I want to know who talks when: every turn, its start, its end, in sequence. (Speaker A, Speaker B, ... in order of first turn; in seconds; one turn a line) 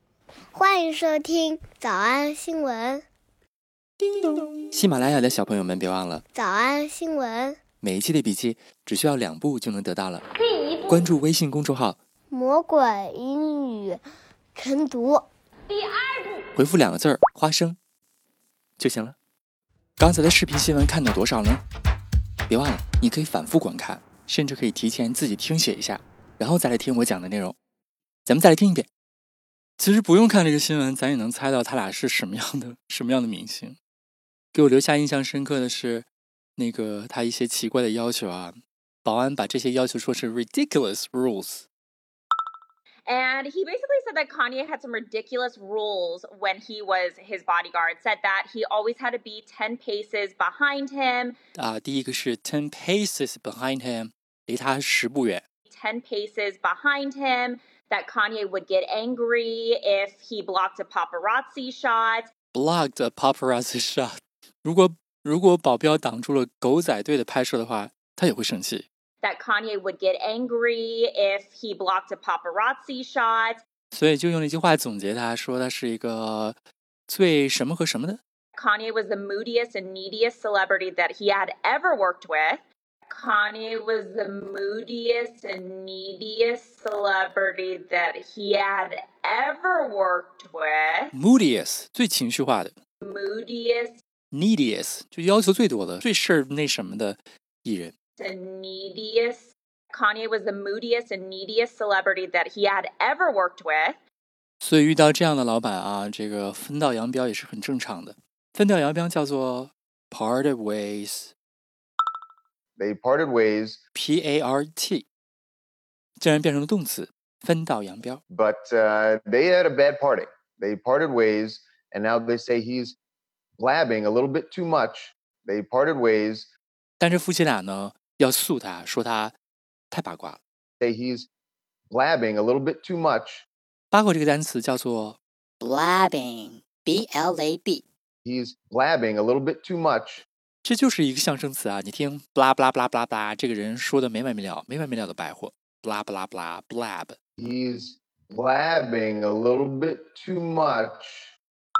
Speaker A: 0.5-3.0
Speaker B: 4.0-6.2
Speaker A: 6.3-7.6
Speaker B: 7.8-10.2
Speaker B: 10.9-12.0
Speaker A: 12.3-14.0
Speaker A: 14.6-15.2
Speaker B: 16.6-17.8
Speaker B: 18.8-19.1
Speaker B: 20.0-21.6
Speaker B: 22.5-27.6
Speaker B: 28.2-28.9
Speaker B: 29.8-33.8
Speaker B: 34.5-41.6
Speaker C: 43.1-51.3
Speaker B: 51.5-55.4
Speaker C: 55.7-62.3
Speaker B: 62.5-68.8
Speaker C: 69.2-73.6
Speaker B: 73.9-76.5
Speaker B: 77.1-78.2
Speaker C: 78.5-91.1
Speaker B: 91.1-92.7
Speaker C: 93.0-94.0
Speaker B: 94.3-97.9
Speaker C: 98.2-104.0
Speaker B: 104.6-111.3
Speaker D: 112.8-113.8
Speaker B: 113.9-115.1
Speaker B: 116.2-118.2
Speaker D: 118.3-123.0
Speaker D: 123.6-126.5
Speaker B: 127.0-129.3
Speaker B: 129.9-130.4
Speaker D: 130.8-131.3
Speaker D: 131.9-133.4
Speaker B: 133.9-135.2
Speaker E: 135.6-137.8
Speaker D: 138.2-140.2
Speaker B: 140.6-147.2
Speaker D: 147.4-151.3